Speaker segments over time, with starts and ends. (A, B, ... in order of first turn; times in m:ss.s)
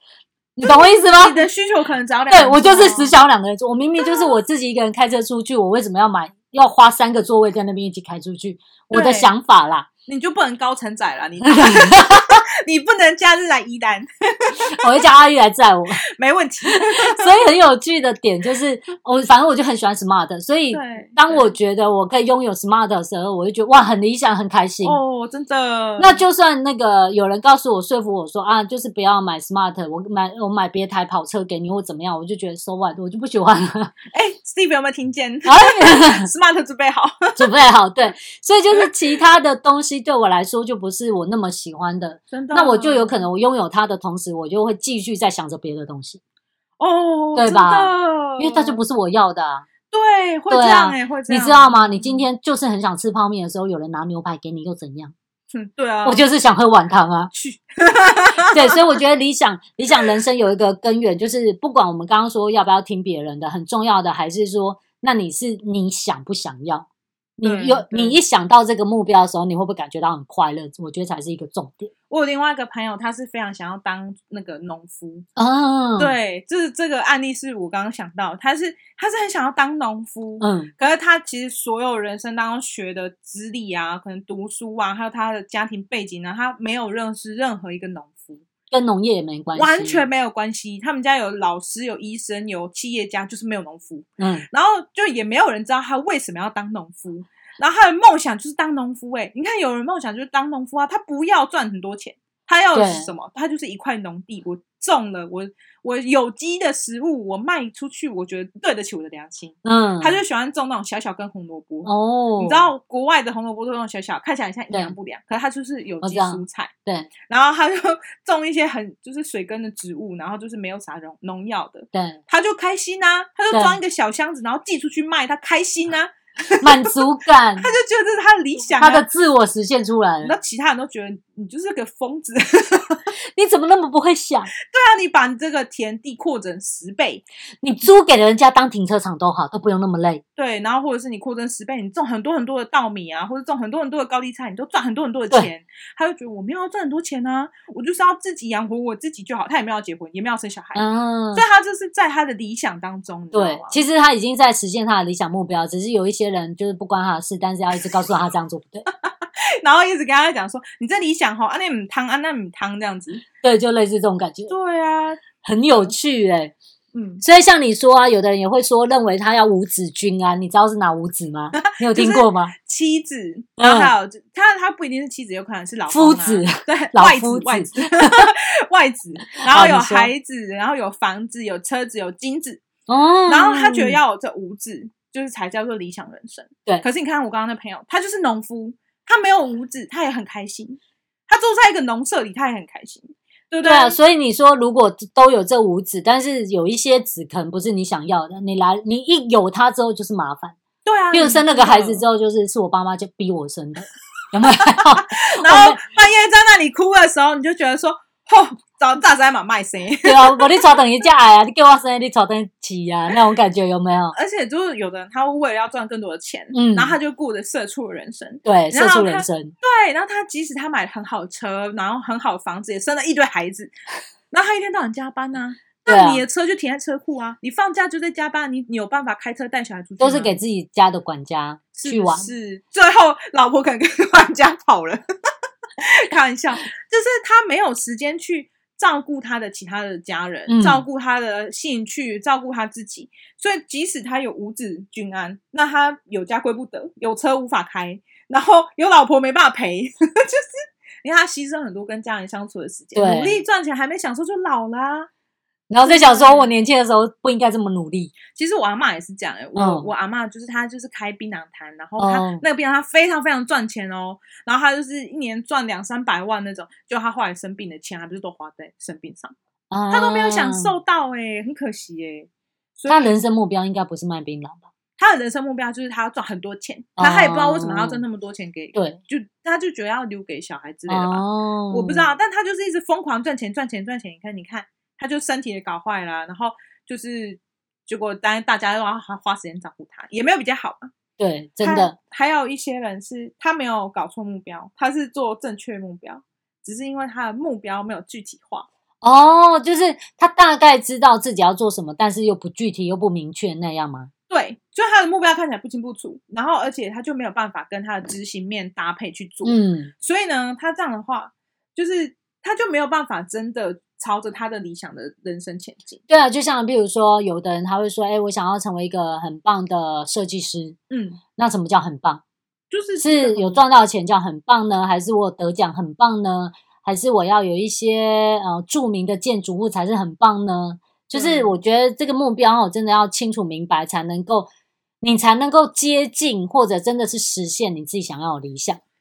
0:00.6-0:01.4 A
0:00.6-0:03.2 B
0:02.3-0:09.9 A
0:04.0-0:04.3 B
0:08.9-0:09.3 B
0:10.1-0:15.0 B
0:11.5-0:12.4 A
0:14.8-0:16.0 A
0:16.2-0:17.4 B
0:16.9-0:25.0 A
0:20.7-0:21.5 B
0:24.8-0:26.2 B
0:26.0-0:33.9 A
0:34.1-0:37.5 B
0:35.5-0:36.3 A
0:37.4-0:46.2 A
0:42.3-0:43.2 B
0:46.8-0:48.8 B
0:47.4-0:49.7 A
0:49.9-0:52.2 B
0:50.5-0:55.1 A
0:55.5-0:56.2 B
0:56.0-0:57.3 A
0:57.3-0:58.8 B
0:58.5-1:06.9 A
1:07.4-1:08.2 B
1:07.4-1:11.9 A
1:12.1-1:15.3 B
1:15.4-1:16.1 A
1:16.0-1:28.5 B
1:20.4-1:20.7 A
1:28.7-1:30.0 A
1:29.6-1:56.7 B
1:34.2-1:34.5 A
1:42.7-1:43.1 A
1:49.6-1:50.2 A
1:51.8-1:52.6 A
1:56.0-1:57.1 A
1:57.3-2:06.9 B
2:01.9-2:02.2 A
2:03.5-2:03.8 A
2:06.6-2:07.7 A
2:07.6-2:09.0 B
2:08.8-2:10.3 A
2:10.2-2:13.0 B
2:13.3-2:14.5 A
2:14.7-2:17.2 B
2:17.6-2:20.2 A
2:20.4-2:30.8 B
2:30.8-2:31.4 A
2:31.3-2:33.8 B
2:33.3-2:38.9 A
2:39.0-2:43.2 B
2:43.4-2:44.5 A
2:44.5-2:45.9 B
2:45.4-2:46.5 A
2:46.9-2:47.2 B
2:47.2-2:52.5 A
2:51.6-3:02.6 B
2:53.6-2:53.9 A
2:55.9-2:58.3 A
2:59.5-3:00.1 A
3:02.9-3:04.0 A
3:03.3-3:14.0 B
3:13.6-3:20.6 A
3:20.8-3:22.0 B
3:21.1-3:25.8 A
3:24.8-3:30.7 B
3:30.0-3:34.2 A
3:34.1-3:43.7 B
3:36.5-3:37.0 A
3:38.4-3:39.5 A
3:44.3-3:50.4 B
3:45.9-3:46.2 A
3:50.0-3:52.3 A
3:51.8-3:55.0 B
3:55.8-4:10.5 B
4:00.5-4:00.8 A
4:11.0-4:15.1 B
4:13.0-4:13.4 A
4:15.7-4:18.2 A
4:15.8-4:16.5 B
4:18.3-4:29.4 B
4:19.6-4:19.9 A
4:22.0-4:22.4 A
4:29.7-4:30.7 A
4:29.9-4:33.2 B
4:32.9-4:34.7 A
4:35.0-4:50.9 B
4:37.0-4:38.0 A
4:40.9-4:42.0 A
4:51.2-4:52.0 A
4:51.6-4:58.7 B
4:59.0-5:04.1 A
5:04.3-5:16.0 B
5:09.4-5:09.9 A
5:16.1-5:20.8 A
5:20.9-5:21.2 B
5:21.4-5:22.2 A
5:22.7-5:23.6 B
5:23.0-5:34.5 A
5:31.1-5:31.6 B
5:35.0-5:38.8 A